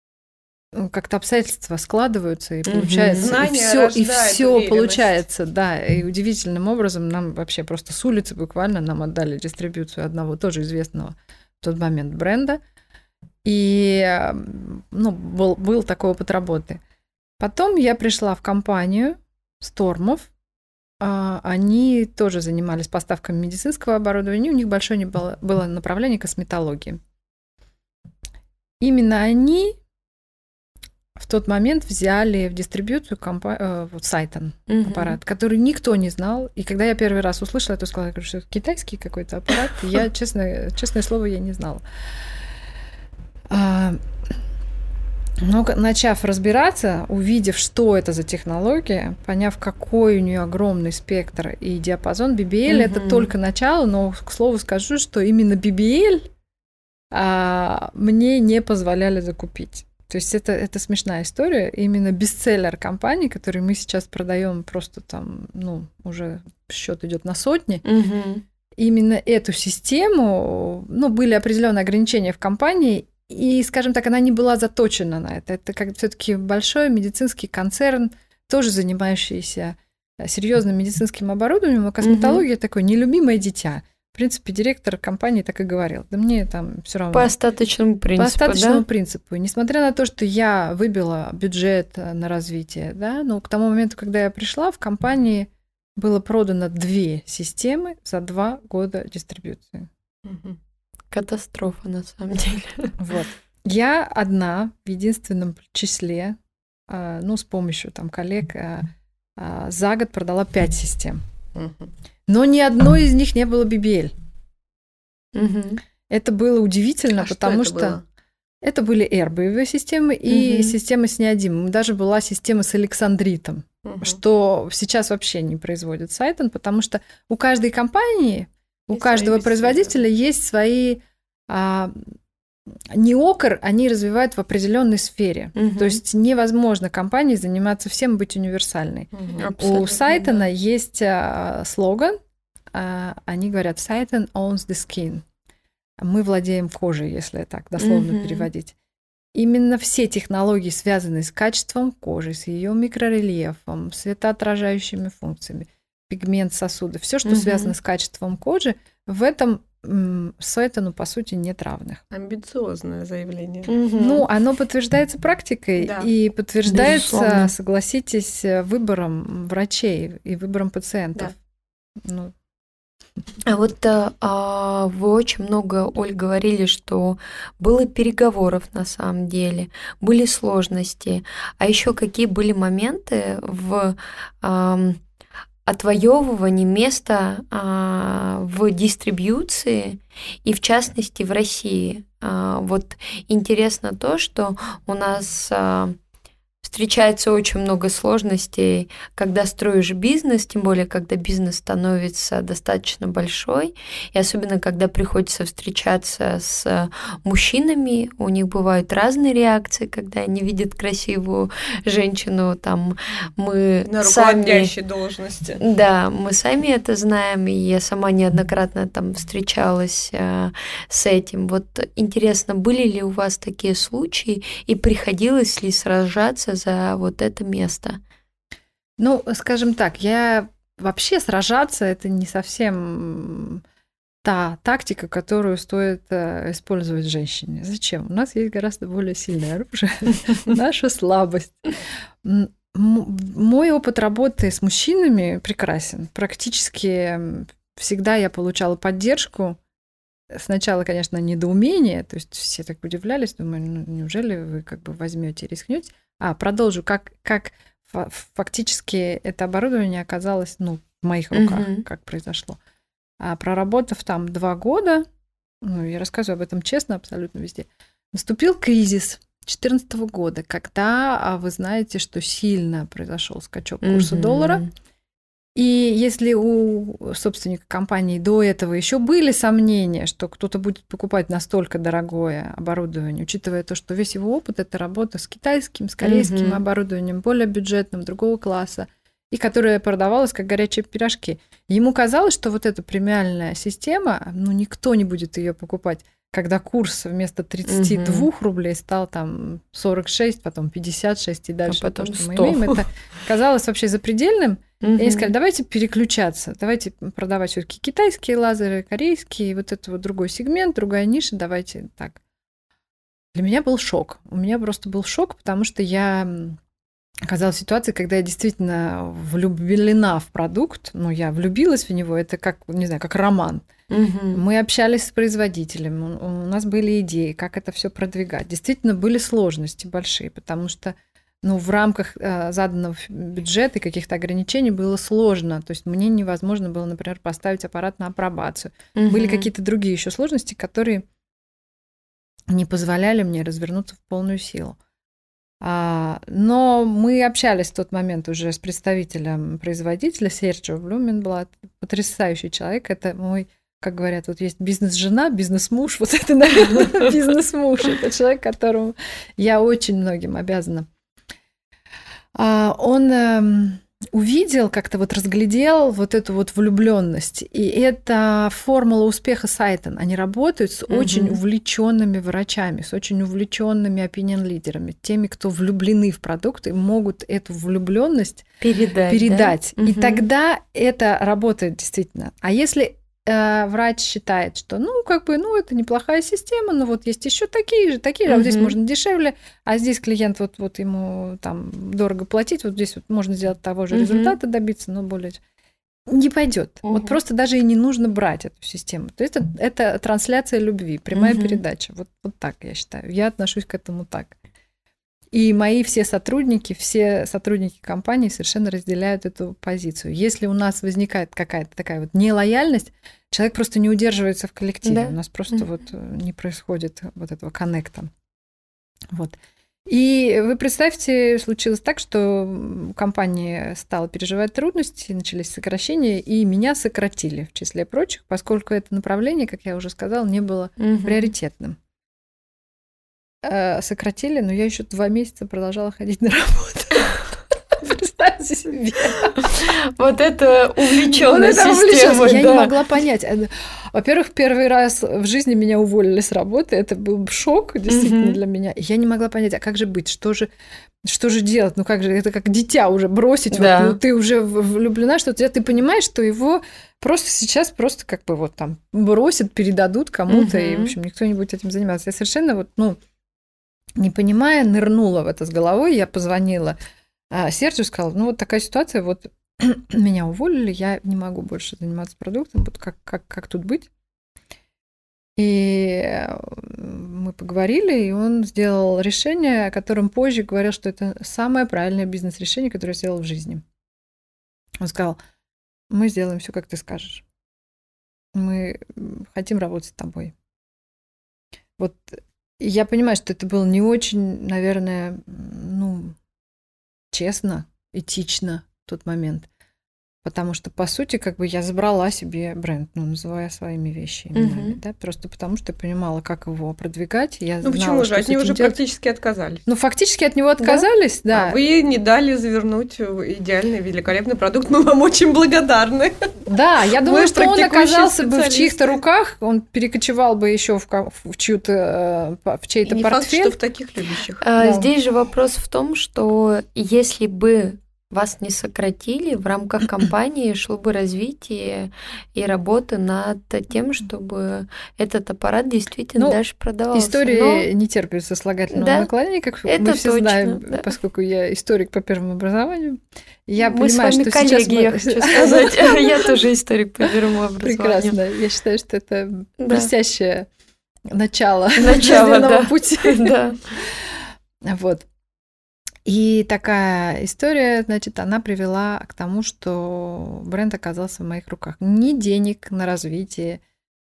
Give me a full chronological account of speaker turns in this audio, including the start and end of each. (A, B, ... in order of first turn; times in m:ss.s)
0:00.7-0:12.6 A
0:02.6-0:03.4 B
0:03.2-0:05.2 C
0:13.4-0:16.8 A
0:17.4-0:20.3 A
0:21.0-0:27.0 A
0:28.8-0:29.8 A
0:31.2-0:41.8 A
0:34.7-0:35.2 B
0:43.5-0:44.0 A
0:45.4-0:56.3 A
0:52.6-0:53.3 B
0:57.1-1:07.8 A
1:07.8-1:08.4 B
1:08.8-1:27.3 A
1:22.0-1:22.4 B
1:27.1-1:28.8 B
1:28.2-1:39.9 A
1:40.2-1:40.6 C
1:41.1-1:42.9 B
1:43.0-1:51.2 A
1:51.6-1:51.9 C
1:52.3-1:54.1 A
1:55.3-1:55.8 B
1:56.1-1:58.0 A
1:57.1-1:58.0 C
1:58.6-2:12.1 A
2:00.3-2:00.8 B
2:03.8-2:04.2 C
2:09.0-2:09.5 B
2:09.4-2:09.7 C
2:12.9-2:22.2 A
2:15.6-2:16.0 B
2:19.1-2:19.4 C
2:19.4-2:20.4 B
2:22.7-2:25.2 A
2:26.0-2:28.8 A
2:27.8-2:28.5 B
2:29.3-2:42.0 A
2:37.2-2:37.7 B
2:42.1-2:43.7 C
2:43.7-2:44.2 B
2:44.0-2:51.3 A
2:45.8-2:46.1 C
2:46.7-2:47.5 B
2:52.0-2:52.3 A
2:53.5-3:05.0 B
3:05.6-3:16.0 B
3:16.6-3:34.7 B
3:33.9-3:35.6 C
3:35.6-3:48.0 B
3:49.0-3:53.6 A
3:54.2-4:01.7 A
4:02.2-4:09.6 A
4:10.3-4:22.6 A
4:21.3-4:21.8 B
4:23.2-4:25.0 A
4:25.6-4:34.6 A
4:33.8-4:34.7 B
4:35.5-5:12.2 A
4:46.0-4:46.6 B
4:57.6-4:58.3 B
5:01.7-5:02.8 B
5:04.8-5:05.3 B
5:13.3-5:16.6 A
5:17.3-5:23.7 A
5:23.9-5:24.4 B
5:24.3-5:41.0 A
5:38.9-5:39.5 B
5:42.5-5:44.8 A
5:45.6-6:00.9 A
6:02.3-6:18.4 A
6:10.9-6:11.4 B
6:18.6-6:20.2 B
6:19.1-6:35.4 A
6:28.3-6:28.8 B
6:33.9-6:34.4 B
6:36.1-6:44.4 A
6:36.8-6:37.2 B
6:41.1-6:41.6 B
6:45.3-6:58.1 A
6:54.8-6:55.6 B
6:59.1-7:11.8 A
7:10.8-7:11.3 B
7:13.4-7:19.4 A
7:19.3-7:22.7 B
7:20.8-7:30.5 A
7:27.9-7:28.4 B
7:31.0-7:43.0 A
7:33.5-7:34.0 B
7:40.3-7:40.9 B
7:44.0-7:46.8 A
7:47.3-7:53.9 A
7:55.4-8:03.6 A
8:04.8-8:05.2 A
8:05.9-8:07.2 A
8:08.3-8:10.3 A
8:11.8-8:16.2 A
8:17.1-8:19.5 A
8:20.2-8:28.8 A
8:24.3-8:24.8 B
8:27.6-8:29.6 C
8:29.7-8:31.6 A
8:30.6-8:30.8 B
8:31.3-8:36.4 C
8:36.5-8:43.6 A
8:37.0-8:39.0 C
8:42.8-8:44.4 C
8:44.4-8:57.7 B
8:44.6-8:44.9 A
8:56.9-9:06.4 A
8:58.7-8:59.1 B
8:59.6-9:00.9 B
9:03.6-9:08.2 B
9:07.0-9:10.5 A
9:09.6-9:09.9 B
9:11.1-9:15.0 A
9:11.8-9:13.6 B
9:16.0-9:23.6 A